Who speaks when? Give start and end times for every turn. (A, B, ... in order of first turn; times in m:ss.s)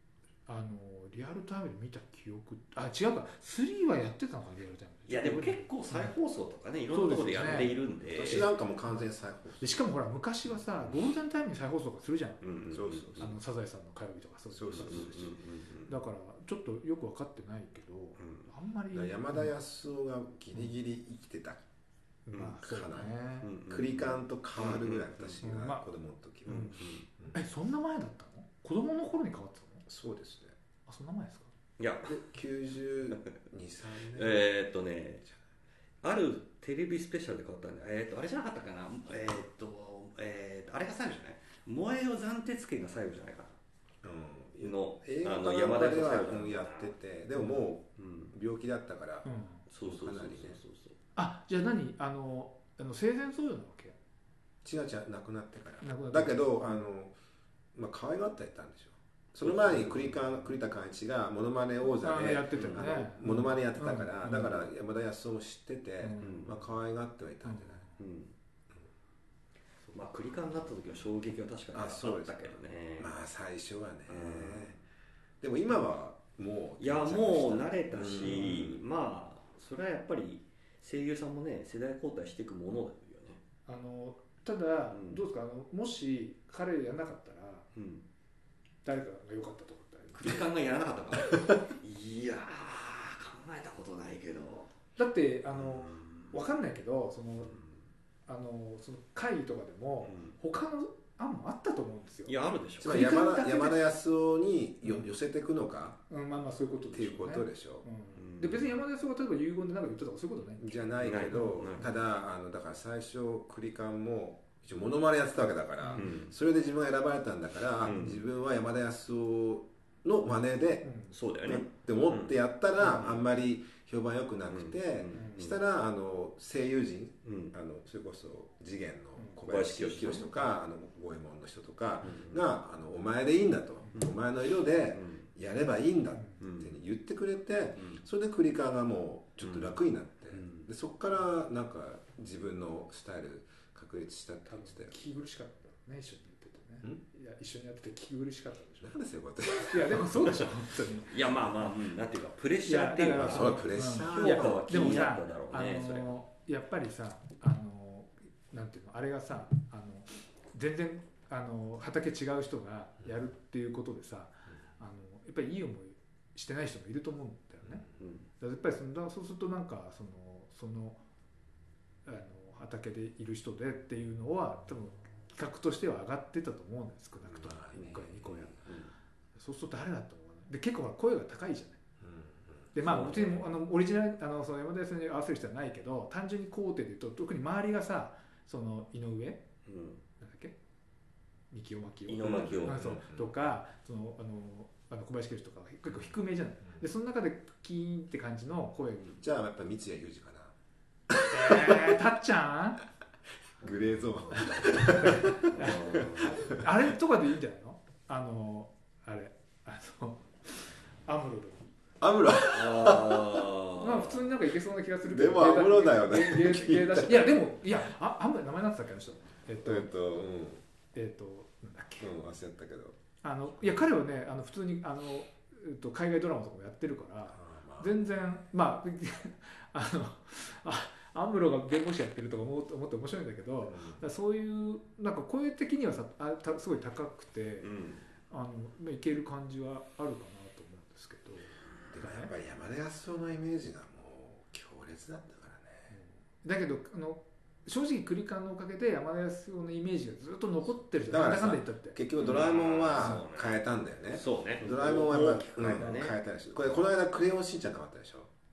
0:00.5-0:06.1 A
0:05.1-0:08.5 B
0:06.9-0:07.8 A
0:08.2-0:09.8 C
0:08.3-0:09.1 A
0:09.6-0:12.4 A
0:12.4-0:13.4 B
0:12.7-0:13.4 C
0:13.2-0:15.3 A
0:14.5-0:15.4 C
0:14.8-0:15.9 B
0:15.9-0:19.5 A
0:18.2-0:18.5 B
0:18.9-0:21.6 C
0:22.3-0:23.5 A
0:22.6-0:23.1 C
0:23.4-0:25.4 B
0:23.7-0:27.4 C
0:25.4-0:25.8 A
0:26.5-0:27.0 B
0:26.5-0:29.8 A
0:29.9-0:30.6 C
0:30.9-0:31.5 A
0:31.8-0:32.2 B
0:32.0-0:34.5 C
0:33.1-0:33.4 B
0:34.1-0:35.2 B
0:36.0-0:43.6 B
0:44.0-0:49.3 C
0:44.6-0:46.9 B
0:48.0-0:48.3 B
0:49.2-0:49.6 A
0:49.7-0:51.0 B
0:49.8-0:50.6 C
0:51.2-0:54.0 A
0:54.6-0:57.2 C
0:55.8-0:56.8 A
0:57.7-1:07.8 C
0:59.4-1:00.3 B
1:02.0-1:04.7 A
1:02.5-1:02.8 B
1:06.0-1:06.6 A
1:06.2-1:06.6 B
1:07.4-1:08.0 A
1:08.0-1:08.3 B
1:09.9-1:13.1 B
1:11.7-1:14.8 C
1:14.1-1:14.8 B
1:15.4-1:18.8 C
1:16.8-1:23.4 B
1:23.7-1:27.7 A
1:24.9-1:25.2 B
1:27.8-1:28.0 B
1:28.8-1:30.4 A
1:30.1-1:34.7 B
1:35.0-1:37.6 A
1:35.6-1:36.3 B
1:38.3-1:43.9 A
1:40.0-1:40.3 B
1:42.3-1:43.0 B
1:42.8-1:46.0 C
1:46.1-1:50.8 A
1:46.9-1:47.9 C
1:48.2-1:48.7 B
1:50.6-2:00.9 C
1:51.0-1:51.9 B
1:55.8-1:56.1 A
1:56.0-1:56.3 B
1:57.8-1:58.2 B
2:00.8-2:01.1 A
2:01.1-2:03.2 B
2:01.4-2:25.0 C
2:04.5-2:05.6 B
2:05.2-2:05.4 A
2:07.2-2:07.5 B
2:09.4-2:10.3 B
2:12.0-2:12.4 B
2:14.9-2:15.3 B
2:16.4-2:16.7 B
2:19.4-2:19.8 B
2:20.3-2:20.7 B
2:24.5-2:29.0 A
2:28.8-2:30.5 C
2:29.5-2:31.2 A
2:31.1-2:36.1 B
2:32.6-2:47.8 A
2:33.1-2:35.1 C
2:48.0-2:48.3 B
2:48.4-2:51.0 A
2:52.1-2:58.6 A
2:57.3-2:58.5 C
2:58.6-2:58.9 B
2:59.4-3:01.8 A
3:02.0-3:02.7 C
3:02.7-3:09.4 A
3:02.8-3:03.5 B
3:09.7-3:10.0 B
3:10.2-3:10.6 A
3:11.5-3:19.2 A
3:12.1-3:13.0 B
3:12.2-3:13.3 C
3:19.2-3:20.5 C
3:21.1-3:22.0 C
3:21.3-3:22.8 A
3:23.6-3:26.7 C
3:24.4-3:31.8 A
3:25.5-3:26.4 B
3:32.0-3:33.5 C
3:32.5-3:34.2 B
3:33.8-3:40.0 A
3:35.0-3:37.4 C
3:39.6-3:40.6 C
3:40.9-3:42.1 A
3:42.0-3:43.0 C
3:43.2-3:57.7 A
3:43.6-3:43.9 C
3:47.3-3:48.0 C
3:53.7-3:54.0 C
3:57.6-3:58.0 B
3:58.3-4:02.3 A
4:01.9-4:05.9 C
4:05.9-4:12.2 A
4:11.1-4:18.3 C
4:12.2-4:13.6 B
4:13.0-4:13.2 A
4:14.1-4:16.2 B
4:15.6-4:16.0 A